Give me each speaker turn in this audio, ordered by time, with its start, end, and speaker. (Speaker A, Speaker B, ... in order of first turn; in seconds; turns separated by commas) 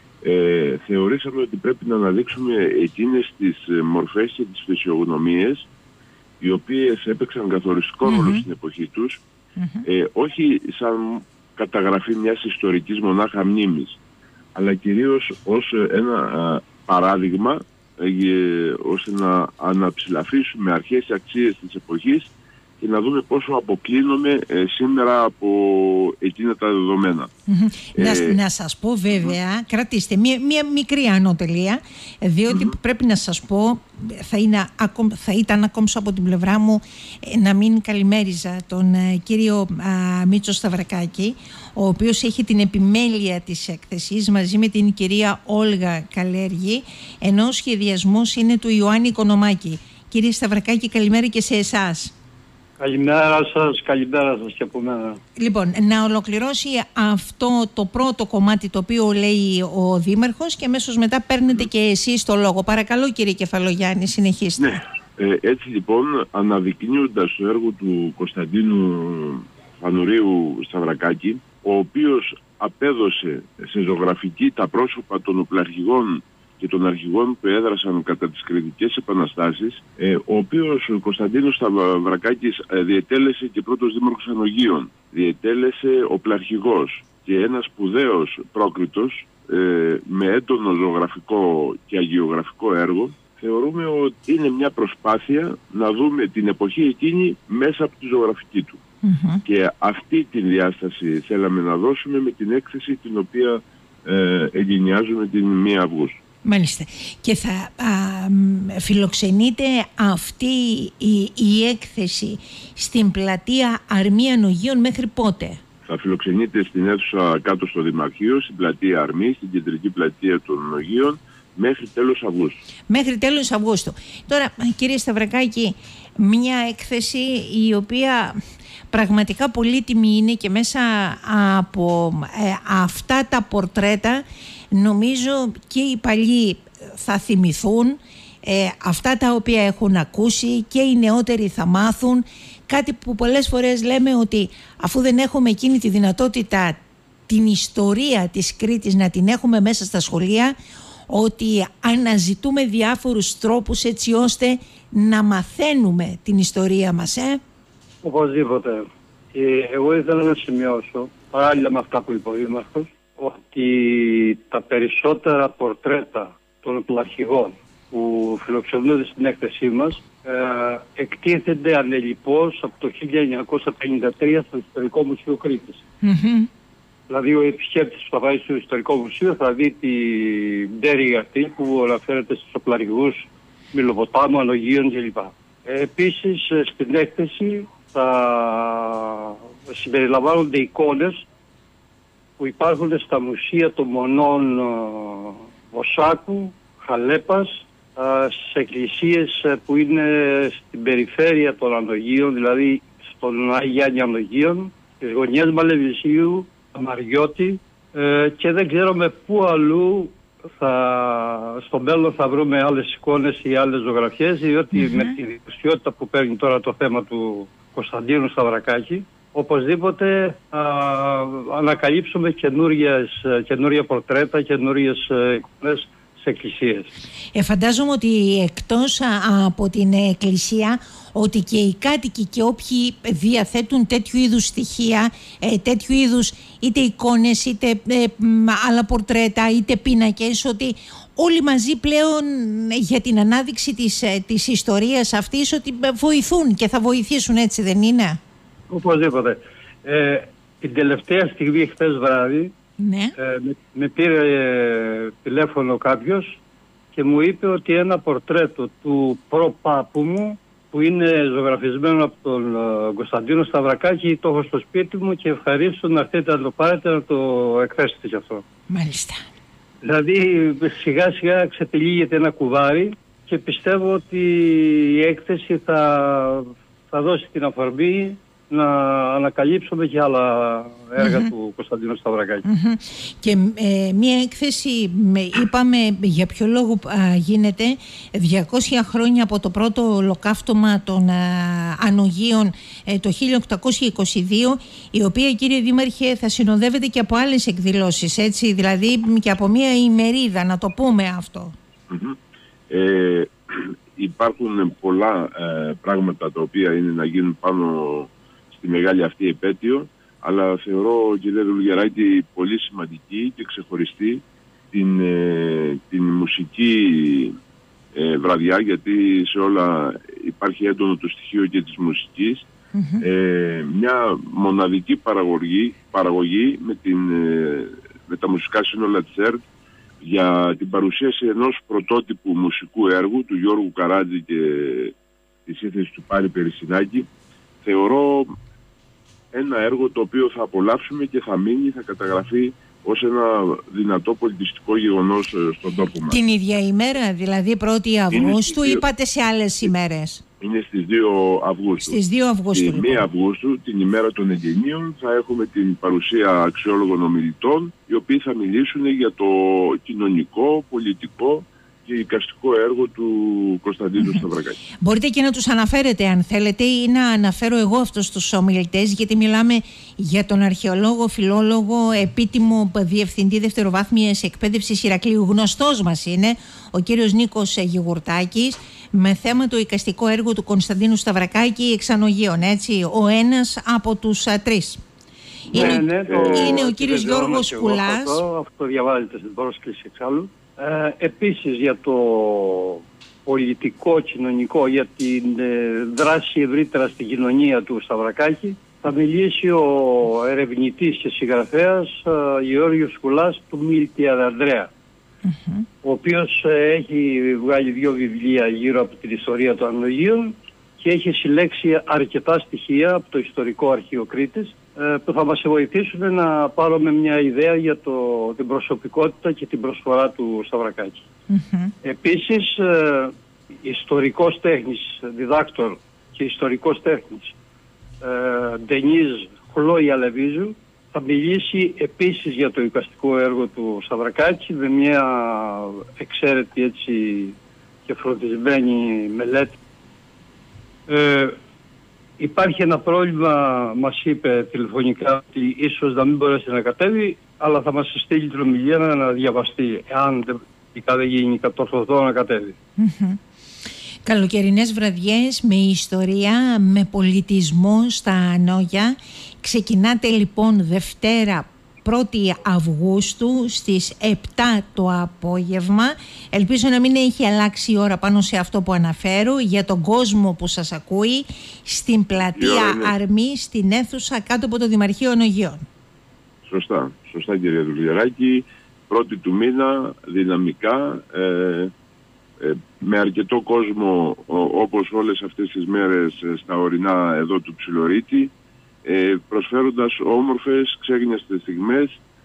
Speaker A: 0.2-5.7, Speaker A: 6.4-9.2, Speaker B: 8.0-8.4, Speaker B: 9.6-9.8, Speaker A: 9.8-14.0, Speaker A: 14.5-27.3, Speaker B: 27.5-52.1, Speaker A: 27.9-28.4, Speaker A: 32.5-32.8, Speaker C: 52.8-55.2, Speaker B: 55.4-64.8, Speaker A: 64.6-98.8, Speaker B: 99.0-99.4, Speaker A: 99.4-106.2, Speaker B: 106.4-115.6, Speaker A: 115.8-122.6, Speaker B: 122.9-128.3, Speaker B: 128.9-150.6, Speaker B: 151.1-157.4, Speaker C: 158.0-175.8, Speaker B: 176.0-176.5, Speaker C: 177.1-191.2, Speaker C: 192.4-226.9, Speaker B: 214.7-215.2, Speaker B: 227.3-248.2, Speaker C: 248.7-252.5, Speaker B: 252.8-253.1, Speaker C: 253.2-256.4, Speaker C: 256.9-268.4, Speaker B: 268.7-269.2, Speaker C: 269.8-282.4, Speaker B: 281.0-281.3, Speaker B: 282.4-301.5, Speaker A: 301.9-302.2, Speaker A: 302.7-317.3, Speaker A: 317.9-322.5, Speaker B: 322.7-323.0, Speaker A: 323.0-329.4, Speaker A: 330.0-334.9, Speaker A: 335.4-337.1, Speaker A: 337.6-338.3, Speaker A: 339.3-346.2, Speaker B: 346.1-350.2, Speaker A: 348.1-348.8, Speaker A: 350.4-352.0, Speaker B: 351.8-353.1, Speaker A: 352.5-364.6, Speaker B: 364.0-364.2, Speaker B: 364.8-384.8, Speaker B: 385.5-388.2, Speaker C: 385.5-404.7, Speaker A: 385.5-386.6, Speaker B: 405.2-405.6, Speaker C: 405.8-421.1, Speaker B: 421.3-421.7, Speaker C: 421.8-427.3, Speaker C: 428.0-439.6, Speaker C: 440.9-441.4, Speaker C: 442.2-452.6, Speaker B: 452.8-453.2, Speaker B: 454.0-475.6, Speaker A: 472.2-472.9, Speaker A: 476.4-481.7, Speaker A: 482.4-488.3, Speaker A: 488.8-491.9